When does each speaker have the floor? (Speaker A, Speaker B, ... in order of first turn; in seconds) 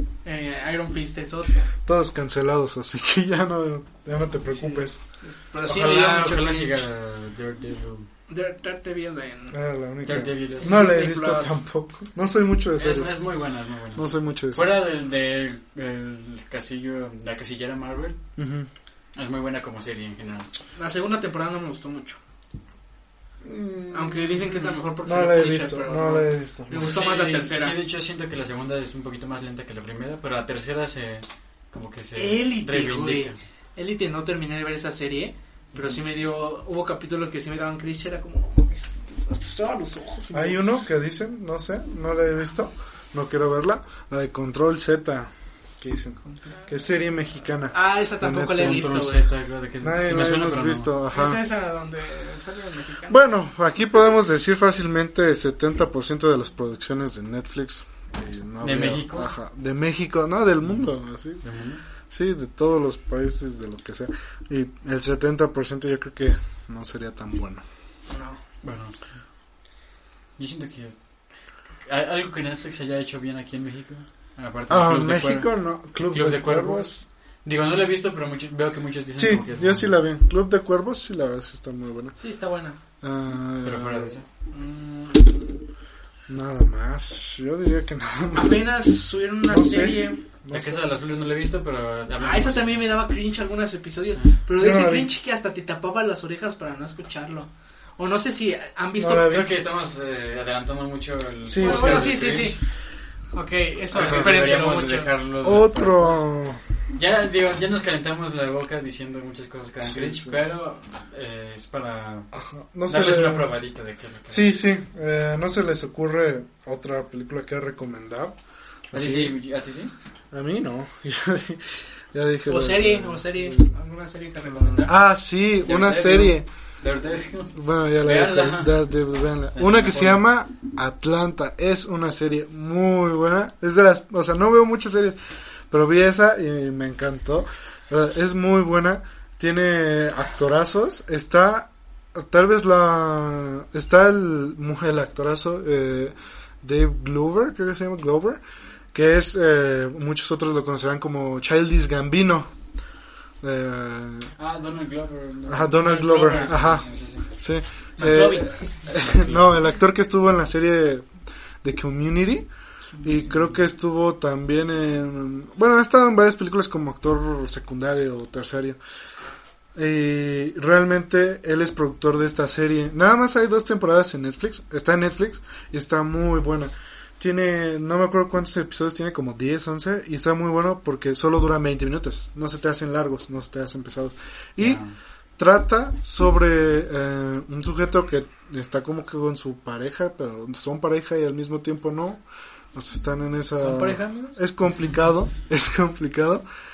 Speaker A: 0.2-1.7, 4.5-6.8, 8.3-9.6, 10.6-11.6, 20.8-22.2, 23.9-27.8, 32.1-40.6, 46.2-46.5, 47.7-49.3, 51.1-53.2, 68.1-68.4, 82.2-82.8, 84.5-85.6, 88.3-90.2, 92.2-99.3, 101.6-102.6, 103.3-105.1, 122.5-125.0, 155.9-156.4, 158.0-158.7, 193.6-194.4
Speaker B: 1.9-5.0, 9.5-13.2, 13.9-14.7, 18.4-18.7, 23.6-23.9, 25.0-26.9, 40.3-49.0, 49.8-51.4, 53.1-61.4, 62.1-67.6, 74.7-77.0, 79.2-82.2, 83.0-84.2, 86.3-88.6, 89.4-90.8, 94.5-95.1, 99.0-99.5, 101.5-102.2, 104.0-104.5, 105.4-106.6, 109.8-110.4, 112.3-113.5, 114.3-118.3, 118.9-119.3, 120.3-123.7, 124.7-126.5, 127.5-135.2, 135.7-148.4, 148.9-152.5, 153.4-154.3, 155.5-161.1, 161.6-162.5, 163.0-168.8, 169.7-184.8, 185.4-192.2, 192.7-196.4
Speaker C: 5.6-8.1, 10.0-10.8, 12.8-18.2, 19.1-20.5, 26.7-33.4, 48.5-50.9, 58.6-59.3, 61.4-61.8, 68.6-69.0, 70.4-71.0, 71.8-79.9, 83.6-84.2, 90.5-93.0, 99.2-102.6, 103.9-106.2, 106.9-112.3, 112.9-114.5, 118.9-119.9, 125.6-128.9, 129.5-130.2, 154.4-157.2, 158.9-159.6, 184.6-184.9